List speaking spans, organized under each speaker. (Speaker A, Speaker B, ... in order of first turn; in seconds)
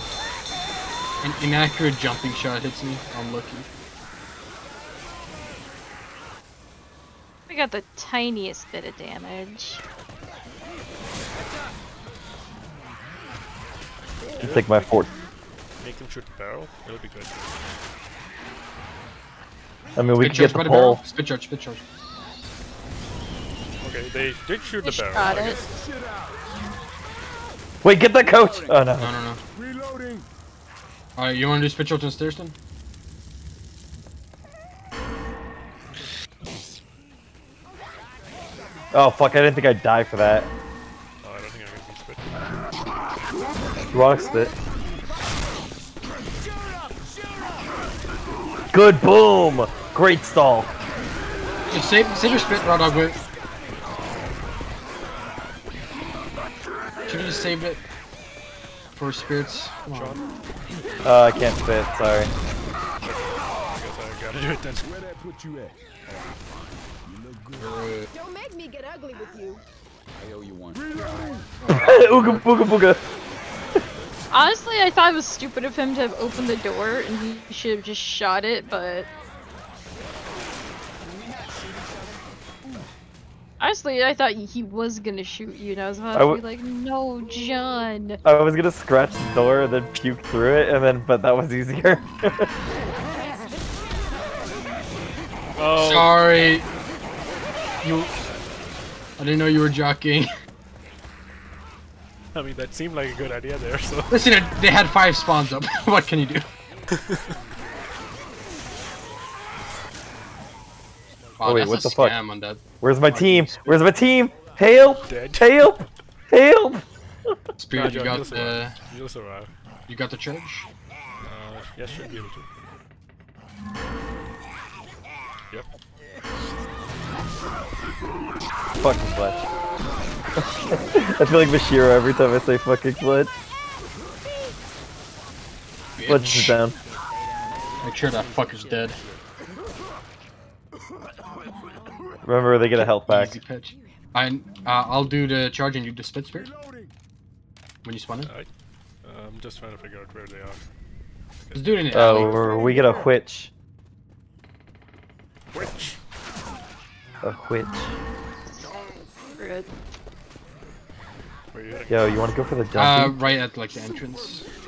Speaker A: 1.2-3.7, 20.2-21.9, 29.0-29.4, 31.1-32.5, 51.7-53.2, 57.0-57.8, 59.0-60.2, 67.6-68.1, 71.6-72.5, 95.7-96.7, 97.8-98.1, 99.2-100.3, 104.1-106.5, 111.4-113.7, 117.5-118.8, 119.9-120.7, 135.9-136.6, 137.8-139.0, 142.8-146.5, 147.8-148.3, 151.5-152.7, 162.7-164.4
Speaker B: 7.5-9.8, 24.8-25.6, 74.3-79.1, 83.6-88.2, 159.4-159.7
Speaker C: 14.2-15.1, 68.1-69.6, 143.7-144.1
Speaker D: 14.4-14.7, 15.8-17.5, 23.8-25.7, 41.2-42.2, 59.9-60.2, 63.0-64.9, 95.6-96.2, 102.3-104.2, 106.9-107.3, 115.1-115.8, 117.7-119.5, 121.2-122.5, 148.2-148.5, 149.0-150.6, 151.5-152.3, 155.5-156.0, 161.5-162.5
Speaker E: 14.4-15.1, 20.0-21.0, 27.8-29.2, 38.9-40.5, 43.9-44.5, 48.7-50.7, 61.0-62.3, 71.7-73.0, 88.2-92.5, 111.4-112.2, 112.8-117.3, 128.8-129.4, 130.7-133.3, 136.1-136.8, 142.2-143.3, 151.9-153.5, 157.2-157.9, 161.9-163.2
Speaker F: 70.2-70.9, 81.0-82.8, 136.9-139.2